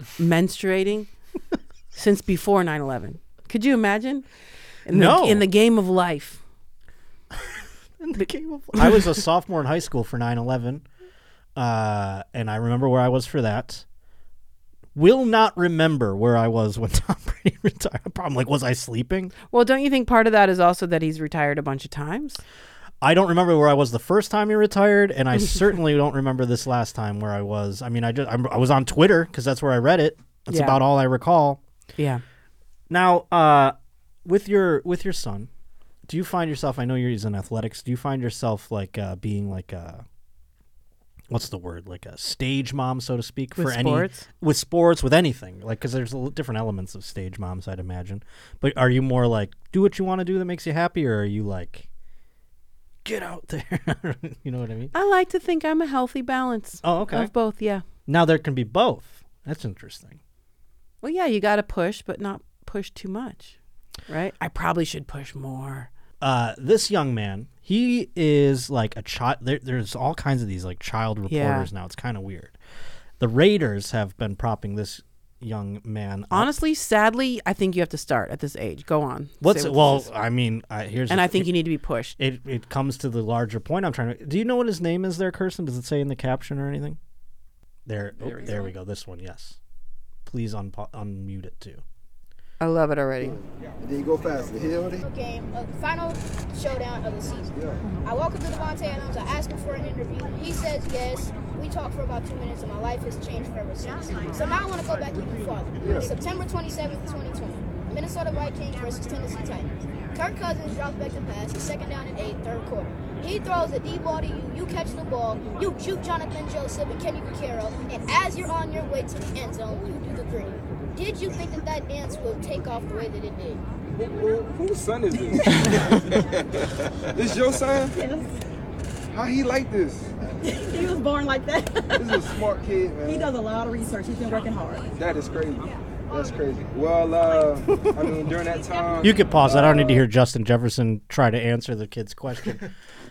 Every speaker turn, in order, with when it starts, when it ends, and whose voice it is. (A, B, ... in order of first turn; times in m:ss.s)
0:00.2-0:01.1 A
0:01.9-0:04.2 A
0:04.8-0:06.4 A
0:04.9-0:05.5 B
0:07.3-0:10.8 B
0:08.7-0:09.2 A
0:11.6-0:13.8 B
0:14.9-0:19.3 B
0:19.5-0:22.4 A
0:23.0-0:31.6 B
0:30.5-0:30.8 A
0:32.0-0:32.2 A
0:32.9-0:35.5 B
0:36.1-0:40.0 B
0:41.3-0:51.9 B
0:43.6-0:44.2 A
0:53.0-0:54.9 B
0:54.9-0:57.8 A
0:56.8-0:57.3 B
0:58.1-1:00.2 B
1:01.0-1:03.6 A
1:04.1-1:05.9 A
1:06.2-1:12.6 B
1:11.3-1:11.7 A
1:13.2-1:16.6 B
1:16.3-1:20.1 A
1:19.4-1:21.6 B
1:21.1-1:22.2 A
1:22.2-1:27.0 B
1:27.8-1:29.6 B
1:30.2-1:31.8 B
1:32.6-1:33.4 A
1:33.2-1:35.0 C
1:35.0-2:03.6 D
1:37.5-1:37.9 C
1:45.8-1:46.1 C
2:03.9-2:08.0 C
2:05.4-2:06.0 E
2:07.9-2:08.3 E
2:09.1-2:10.6 C
2:10.4-2:12.4 E
2:12.0-2:13.3 C
2:13.0-2:15.0 E
2:15.0-2:20.0 C
2:19.0-2:22.7 B